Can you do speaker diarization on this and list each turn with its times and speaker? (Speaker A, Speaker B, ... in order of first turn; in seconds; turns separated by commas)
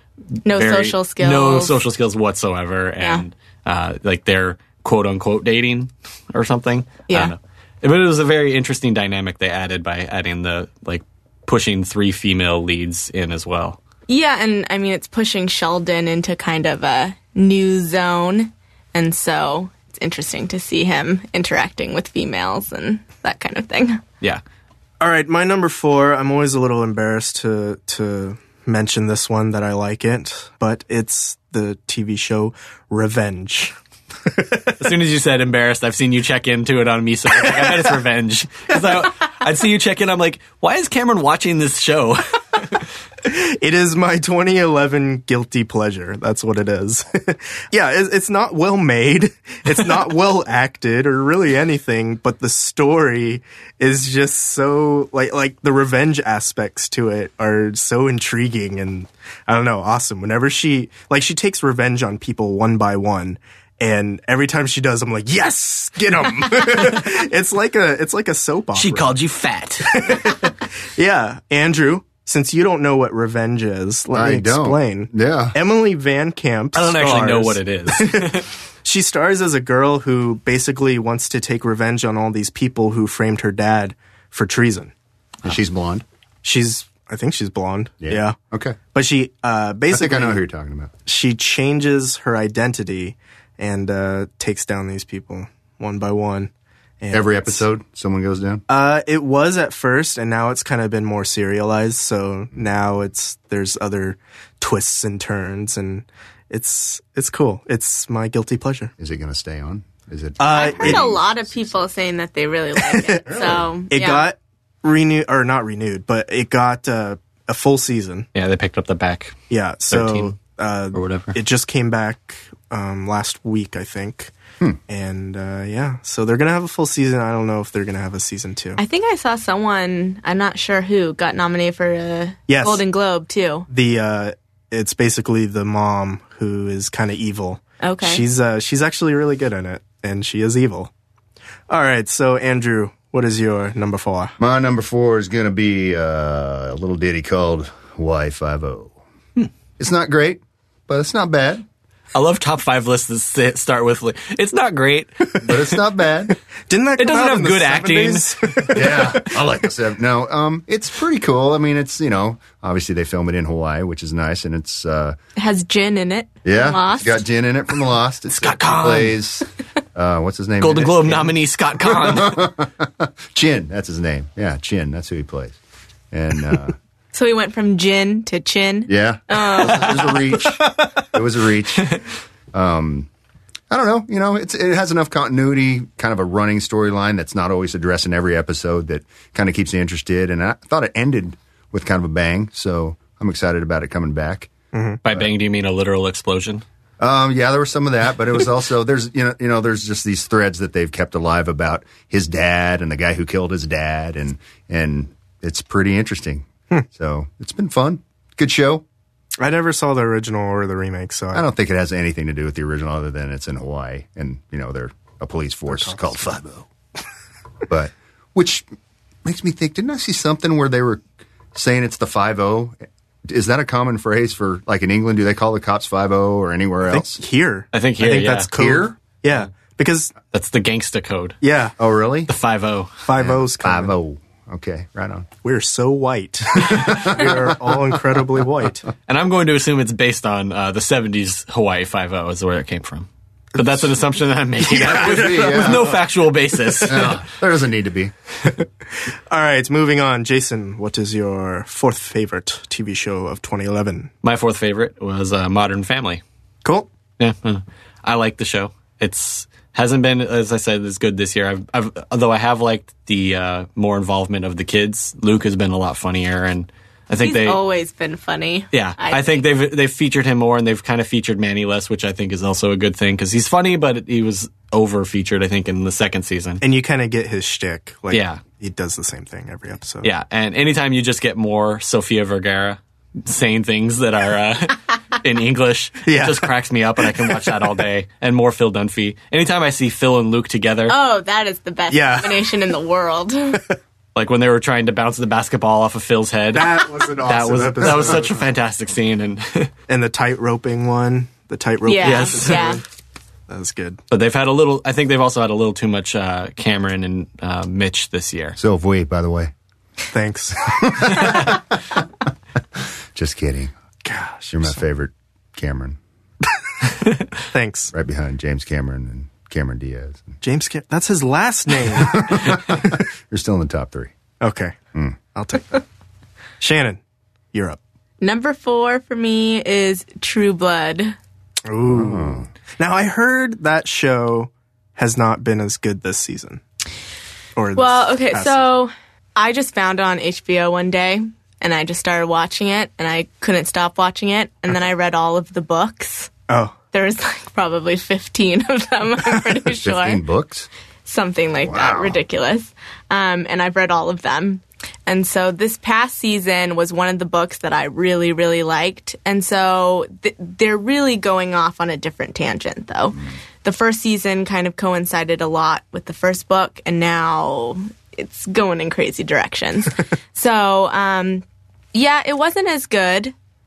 Speaker A: 0.5-1.8, Speaker B: 0.5-13.8, Speaker A: 7.1-7.3, Speaker A: 14.1-24.0, Speaker C: 25.0-33.7, Speaker C: 34.3-34.7, Speaker B: 34.8-42.8, Speaker C: 43.2-69.2, Speaker B: 68.7-70.3, Speaker C: 69.8-84.9, Speaker D: 74.1-75.5, Speaker B: 76.7-78.4, Speaker D: 85.4-86.0, Speaker C: 86.4-88.3, Speaker D: 88.0-88.8, Speaker C: 88.9-90.4, Speaker D: 89.9-90.9, Speaker C: 91.0-97.6, Speaker D: 97.1-98.6, Speaker C: 98.7-108.9, Speaker D: 109.0-111.7, Speaker C: 110.4-111.0, Speaker A: 110.5-114.2, Speaker C: 112.8-113.4, Speaker D: 113.2-113.7, Speaker C: 113.9-118.3, Speaker B: 118.3-119.4, Speaker C: 119.5-124.3, Speaker B: 119.9-120.3, Speaker B: 120.9-121.3, Speaker C: 124.9-128.8, Speaker A: 128.8-133.7, Speaker C: 132.5-132.8, Speaker C: 133.7-140.9, Speaker A: 137.8-138.2, Speaker C: 141.7-144.3, Speaker D: 144.4-148.9, Speaker D: 149.8-151.6, Speaker B: 152.1-155.6, Speaker D: 155.4-156.3, Speaker C: 156.7-159.4, Speaker B: 157.0-158.8, Speaker D: 158.7-165.2, Speaker A: 165.3-167.2, Speaker D: 166.4-171.3, Speaker B: 168.3-169.2, Speaker B: 170.6-172.5, Speaker D: 171.8-175.6, Speaker D: 176.1-176.8, Speaker A: 177.1-180.1, Speaker D: 178.9-182.0, Speaker D: 182.5-183.1, Speaker D: 183.7-194.5, Speaker C: 194.7-195.0, Speaker B: 195.0-196.6, Speaker D: 197.0-208.8, Speaker C: 209.4-211.4, Speaker D: 211.3-216.7, Speaker C: 215.7-216.0, Speaker D: 217.7-218.7, Speaker D: 219.2-221.0, Speaker D: 221.5-227.2, Speaker C: 226.9-230.1, Speaker B: 227.7-228.5, Speaker D: 228.5-229.0, Speaker B: 230.3-231.4, Speaker C: 231.4-231.7, Speaker D: 231.8-232.3, Speaker B: 232.3-233.0, Speaker C: 233.0-233.9, Speaker D: 233.1-235.3, Speaker C: 235.4-238.9, Speaker D: 236.6-237.9, Speaker B: 239.1-247.2, Speaker C: 243.6-243.9, Speaker C: 244.6-246.0, Speaker D: 244.9-246.0, Speaker D: 246.8-248.1, Speaker C: 249.3-254.1, Speaker B: 254.2-256.2, Speaker B: 257.2-267.6, Speaker A: 267.2-269.5, Speaker B: 268.7-276.6, Speaker C: 276.6-280.1, Speaker B: 278.1-278.4, Speaker B: 280.0-290.9, Speaker C: 286.0-286.5, Speaker A: 290.9-293.6, Speaker C: 291.9-292.6, Speaker B: 294.1-299.7, Speaker C: 296.5-298.5, Speaker C: 299.9-302.8, Speaker A: 301.8-302.8, Speaker B: 302.0-302.8, Speaker C: 303.5-304.0, Speaker B: 304.1-308.6, Speaker D: 308.6-309.5, Speaker C: 310.1-311.2, Speaker D: 310.8-311.8, Speaker D: 313.1-313.7, Speaker C: 314.0-314.8, Speaker D: 314.5-316.0, Speaker C: 317.5-317.9, Speaker D: 317.9-320.4, Speaker C: 320.4-323.0, Speaker D: 322.1-324.1, Speaker C: 324.4-324.8, Speaker C: 325.3-325.8, Speaker C: 326.6-327.0, Speaker C: 327.5-327.8, Speaker A: 328.2-331.1, Speaker C: 331.6-336.6, Speaker D: 331.9-332.5, Speaker C: 337.6-338.7, Speaker A: 337.7-346.3, Speaker C: 346.5-346.7, Speaker A: 346.9-350.2, Speaker D: 349.8-350.7, Speaker A: 351.0-373.3, Speaker D: 351.6-352.2